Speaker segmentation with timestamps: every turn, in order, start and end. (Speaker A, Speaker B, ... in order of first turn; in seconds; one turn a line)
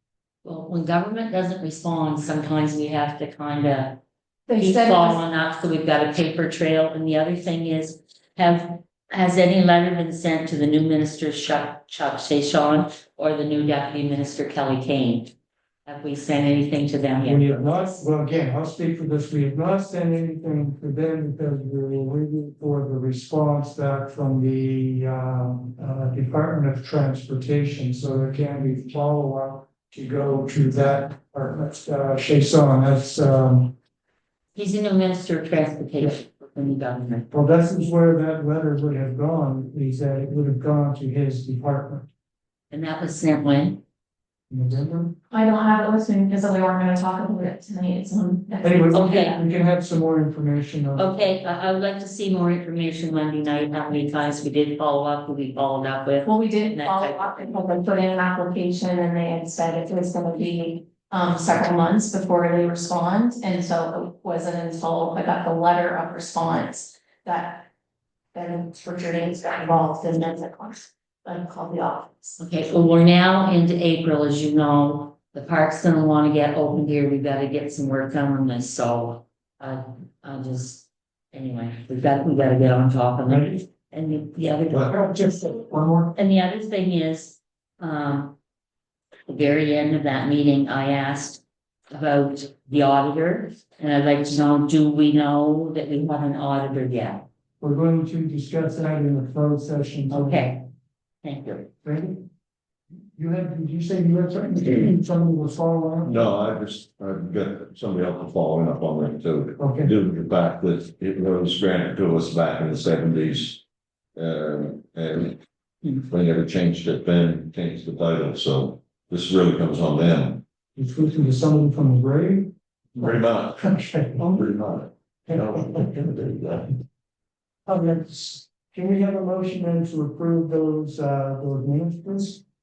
Speaker A: 0.4-4.0
Speaker B: 4.5-5.2
Speaker A: 4.6-15.3
Speaker A: 15.8-18.1
Speaker C: 17.2-33.7
Speaker A: 34.5-37.3
Speaker C: 37.3-42.1
Speaker A: 42.7-43.8
Speaker C: 44.5-45.1
Speaker B: 45.3-48.9
Speaker C: 48.6-51.1
Speaker A: 48.9-49.4
Speaker A: 51.0-57.3
Speaker B: 56.2-67.7
Speaker B: 68.3-72.4
Speaker A: 72.4-85.5
Speaker C: 83.2-83.6
Speaker C: 84.7-86.1
Speaker A: 86.1-88.3
Speaker A: 89.3-97.2
Speaker C: 97.6-100.5
Speaker A: 100.1-100.6
Speaker A: 101.2-101.7
Speaker C: 101.8-102.2
Speaker C: 103.2-106.2
Speaker D: 106.0-113.6
Speaker C: 109.6-109.9
Speaker D: 114.2-115.4
Speaker D: 115.9-120.4
Speaker C: 120.8-124.3
Speaker D: 123.0-123.6
Speaker D: 124.2-126.7
Speaker C: 125.3-125.8
Speaker C: 127.7-132.4